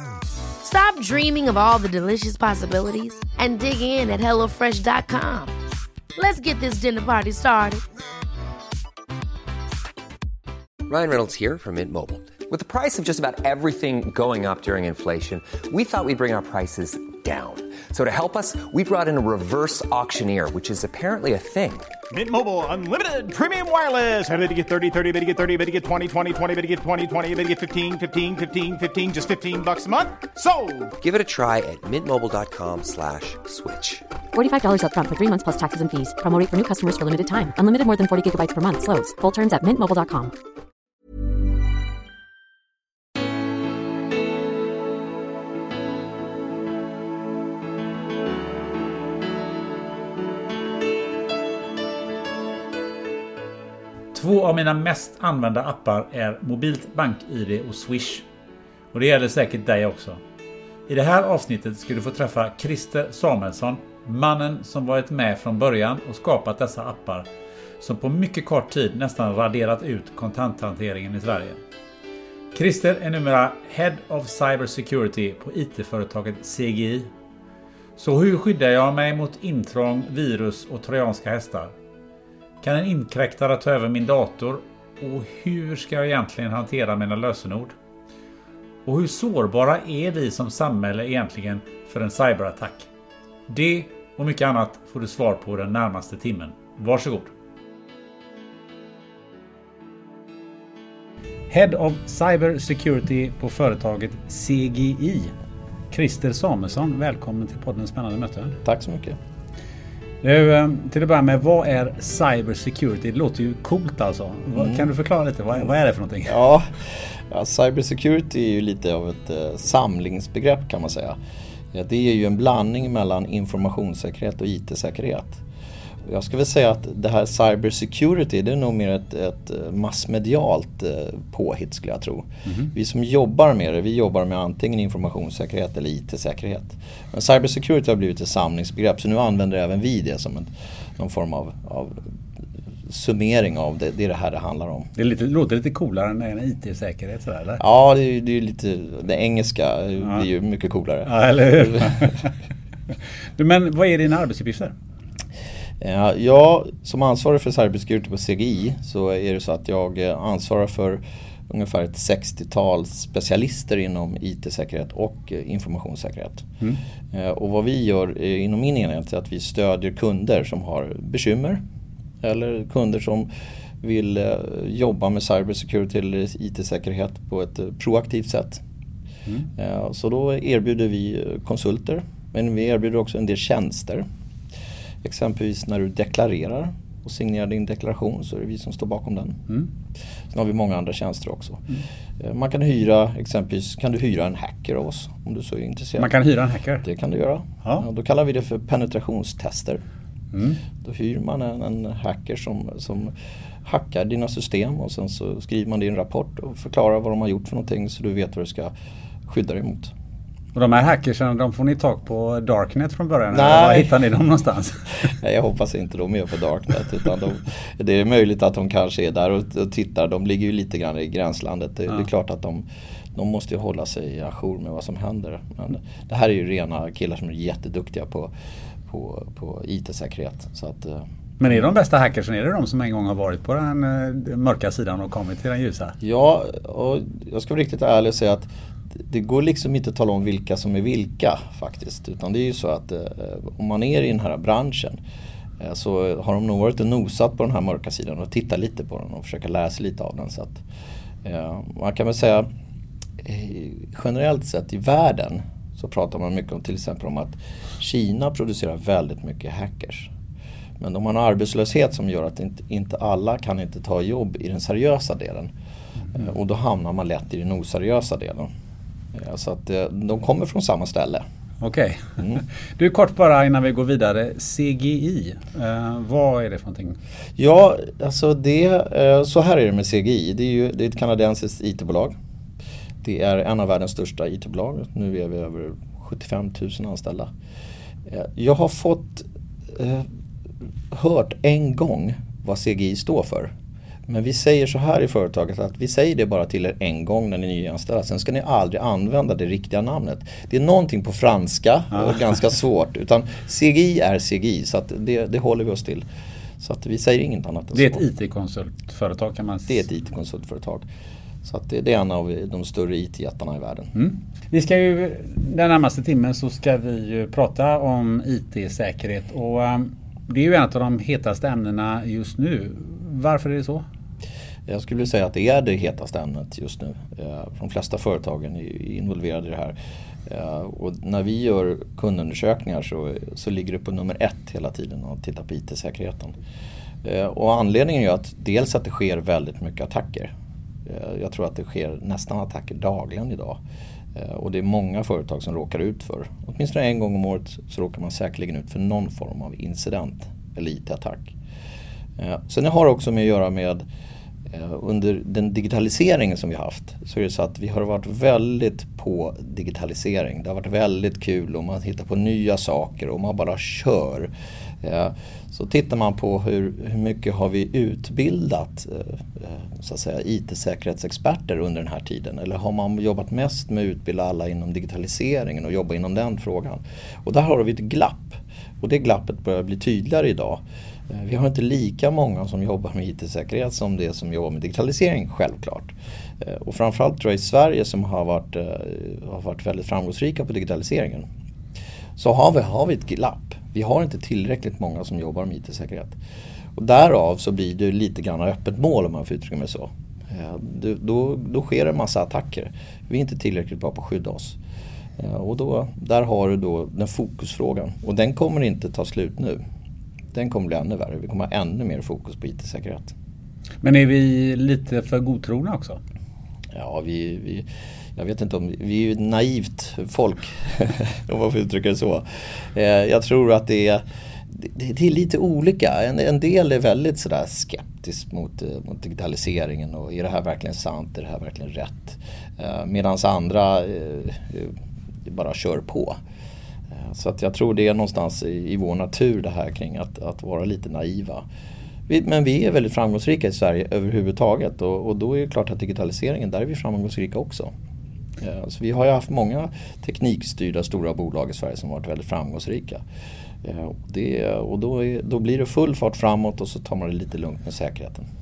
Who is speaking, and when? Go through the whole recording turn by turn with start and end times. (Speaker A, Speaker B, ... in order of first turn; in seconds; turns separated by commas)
Speaker A: 0.6-5.5, Speaker A: 6.2-7.8, Speaker B: 10.9-21.9, Speaker C: 22.1-30.9, Speaker B: 31.0-34.0, Speaker D: 34.3-40.3, Speaker E: 54.1-58.2, Speaker E: 58.9-60.2, Speaker E: 60.9-67.3, Speaker E: 67.8-71.6, Speaker E: 72.5-77.1, Speaker E: 78.0-81.7, Speaker E: 82.6-87.7, Speaker E: 88.8-92.9, Speaker E: 93.5-97.3, Speaker E: 101.5-105.3, Speaker E: 105.9-108.6, Speaker F: 108.6-109.2, Speaker E: 110.2-116.4, Speaker F: 114.6-114.9, Speaker F: 116.2-121.2, Speaker F: 121.7-125.4, Speaker F: 126.0-142.0, Speaker F: 142.9-144.9, Speaker E: 145.0-147.6, Speaker F: 147.6-151.9, Speaker E: 151.1-152.3, Speaker E: 153.4-154.7, Speaker F: 155.8-166.5, Speaker F: 167.1-171.6, Speaker F: 172.2-173.3, Speaker F: 173.8-178.6, Speaker F: 179.6-184.0, Speaker F: 185.0-189.4, Speaker F: 190.3-191.7, Speaker F: 192.2-196.1, Speaker E: 196.0-196.8, Speaker F: 196.8-199.8, Speaker E: 200.3-200.6, Speaker F: 200.8-208.7, Speaker F: 209.3-209.9, Speaker E: 210.5-215.1, Speaker F: 213.3-214.0, Speaker F: 215.1-228.3, Speaker F: 228.9-231.1, Speaker E: 231.4-236.0, Speaker F: 236.0-245.0, Speaker F: 245.6-250.6, Speaker F: 251.2-252.5, Speaker F: 253.2-260.1, Speaker F: 260.8-265.5, Speaker F: 266.1-268.5, Speaker F: 269.1-271.2, Speaker E: 271.6-277.0, Speaker F: 277.4-282.1, Speaker F: 283.0-287.3, Speaker F: 288.1-290.1, Speaker F: 290.9-293.5, Speaker F: 294.1-306.1, Speaker E: 301.9-302.3, Speaker F: 306.6-308.0, Speaker E: 307.7-309.7, Speaker F: 309.7-310.9, Speaker F: 311.4-313.9, Speaker E: 313.9-323.8, Speaker F: 324.7-329.8, Speaker F: 330.3-336.3, Speaker F: 337.0-340.3, Speaker F: 340.9-343.6, Speaker F: 344.1-351.3, Speaker F: 352.2-353.8, Speaker F: 354.5-364.3, Speaker F: 364.8-391.3, Speaker F: 392.2-396.2, Speaker F: 396.8-404.6, Speaker F: 405.2-409.6, Speaker F: 410.3-413.1, Speaker E: 413.8-416.0, Speaker F: 416.7-436.2, Speaker F: 436.9-441.4, Speaker F: 442.1-447.7, Speaker F: 448.4-453.0, Speaker F: 453.6-458.3